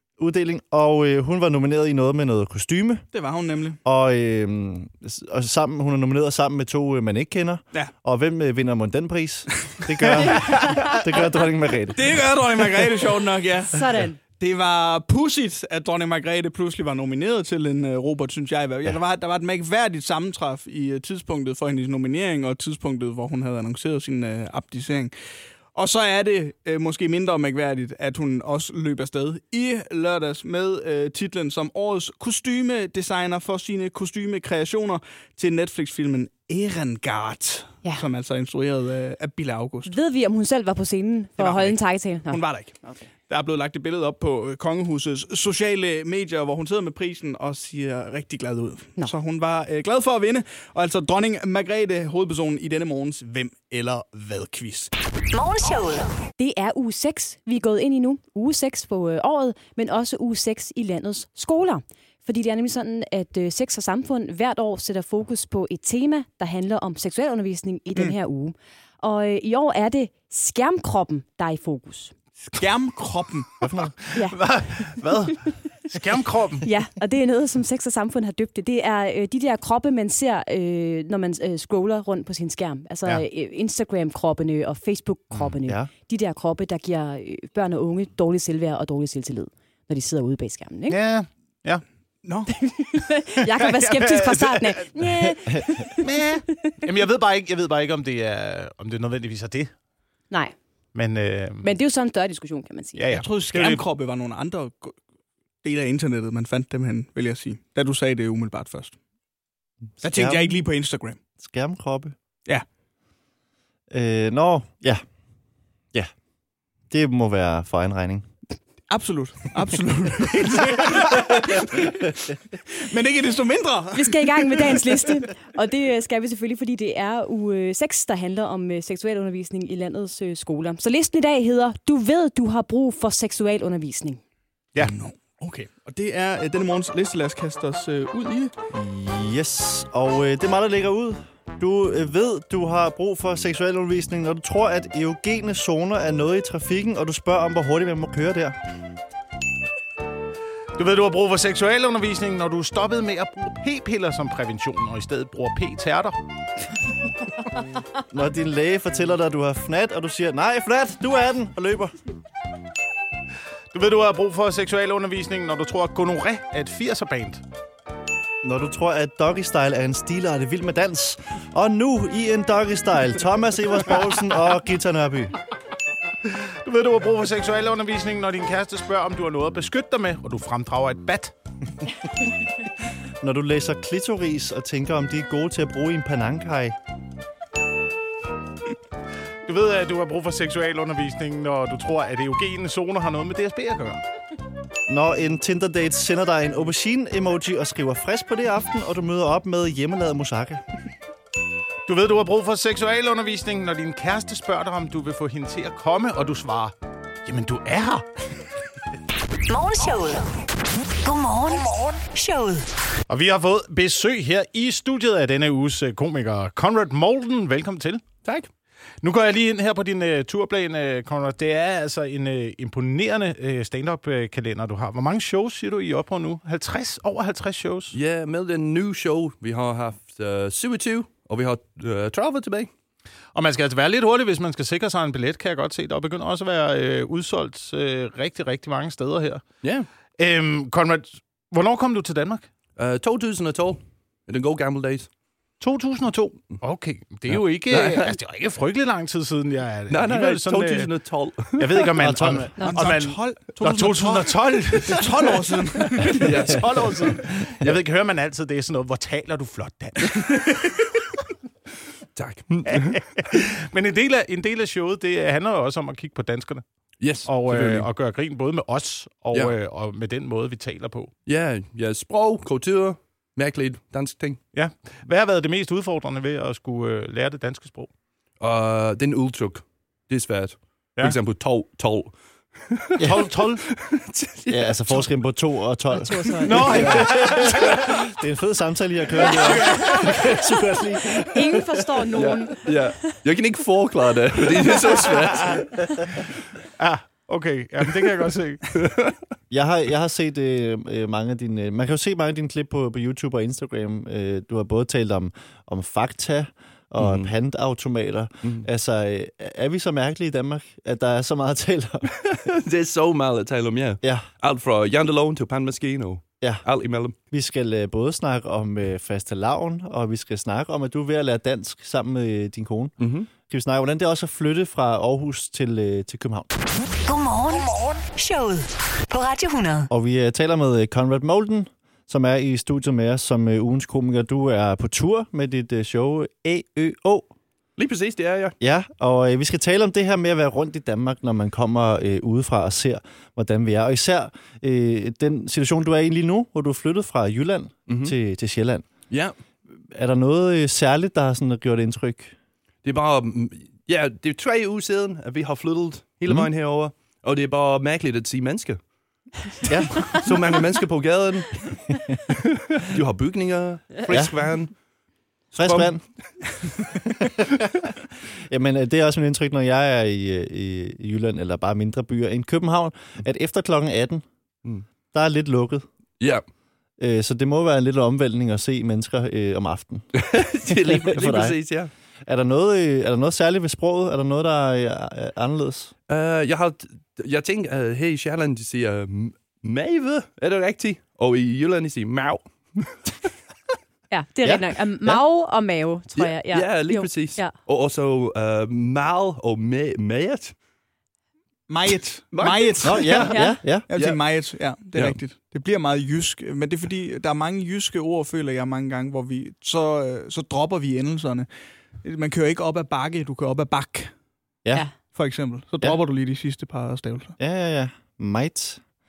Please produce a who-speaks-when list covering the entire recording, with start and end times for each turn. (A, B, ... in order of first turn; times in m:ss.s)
0:00.2-0:03.0 A
0:03.1-0:03.8 B
0:03.8-0:12.2 A
0:09.6-0:11.0 B
0:10.4-0:11.0 C
0:11.9-0:25.1 B
0:13.7-0:14.2 C
0:25.7-0:39.9 B
0:39.8-0:43.1 C
0:41.4-0:54.9 B
0:55.3-0:56.1 D
0:56.4-1:12.1 C
1:12.5-1:13.5 B
1:13.6-1:13.9 A
1:14.0-1:16.6 E
1:14.1-1:14.4 C
1:16.6-1:31.0 C
1:25.4-1:25.9 A
1:30.9-1:31.8 E
1:32.2-1:32.7 B
1:32.5-1:36.8 C
1:33.6-1:34.8 E
1:36.0-1:39.7 E
1:40.3-1:40.6 C
1:40.9-1:41.7 E
1:41.6-1:43.0 C
1:43.0-1:43.8 E
1:43.1-1:45.0 B
1:45.6-1:49.0 B
1:50.0-1:51.2 B
1:50.0-1:50.6 A
1:51.4-1:52.1 A
1:53.9-1:55.0 A
1:56.9-1:58.3 A
1:58.9-2:05.2 B
2:03.9-2:14.2 C
2:14.8-2:18.5 B
2:18.7-2:28.6 A
2:30.8-2:36.2 E
2:38.1-2:42.0 A
2:43.7-2:47.4 E
2:48.4-2:55.4 A
2:56.2-3:01.3 E
3:03.2-3:06.8 A
3:09.4-3:14.0 E
3:14.9-3:20.6 A
3:21.8-3:28.0 E
3:29.5-3:30.3 D
3:31.0-3:32.7 D
3:33.1-3:38.0 E
3:39.0-3:48.0 E
3:47.9-3:52.7 F
3:53.3-3:59.4 E
3:59.6-3:59.9 F
4:00.2-4:02.5 E
4:02.8-4:05.1 F
4:05.6-4:10.9 E
4:07.3-4:08.1 F
4:09.9-4:12.1 F
4:11.6-4:20.7 E
4:12.0-4:12.5 A
4:12.6-4:12.9 C
4:12.6-4:16.4 B
4:16.0-4:17.2 F
4:22.2-4:23.0 F
4:22.6-4:26.6 E
4:27.0-4:27.9 F
4:27.2-4:31.1 E
4:31.2-4:34.4 F
4:34.5-4:37.9 E
4:38.4-4:45.0 F
4:43.0-4:43.2 A
4:43.0-4:43.6 E
4:44.5-4:51.9 A
4:45.9-4:47.0 C
4:46.4-4:47.9 E
4:49.2-4:50.4 C
4:51.1-4:53.1 C
4:52.1-4:55.8 F
4:56.8-4:58.7 E
4:58.7-4:59.2 F
4:59.5-5:12.1 A
5:07.0-5:07.3 F
5:12.1-5:17.2 F
5:14.0-5:14.3 A
5:17.3-5:26.5 A
5:23.0-5:23.3 F
5:27.0-5:29.9 D
5:29.9-5:37.3 A
5:37.8-5:38.5 F
5:38.6-5:48.8 A
5:47.9-5:48.1 F
5:49.9-5:52.3 A
5:52.8-5:58.8 F
5:59.7-6:00.1 A
6:00.0-6:04.7 F
6:05.5-6:06.0 F
6:05.6-6:06.0 A
6:07.1-6:07.9 A
6:08.5-6:14.2 A
6:15.1-6:15.8 A
6:17.0-6:21.6 A
6:20.1-6:21.9 F
6:22.2-6:25.9 A
6:26.1-6:33.0 F
6:34.1-6:37.5 C
6:34.4-6:35.2 A
6:36.2-6:40.5 F
6:41.7-6:51.5 B
6:42.3-6:43.2 F
6:42.8-6:43.9 A
6:43.2-6:43.6 C
6:43.9-6:44.2 F
6:52.0-6:54.1 B
6:55.0-6:57.3 B
6:57.4-6:58.8 A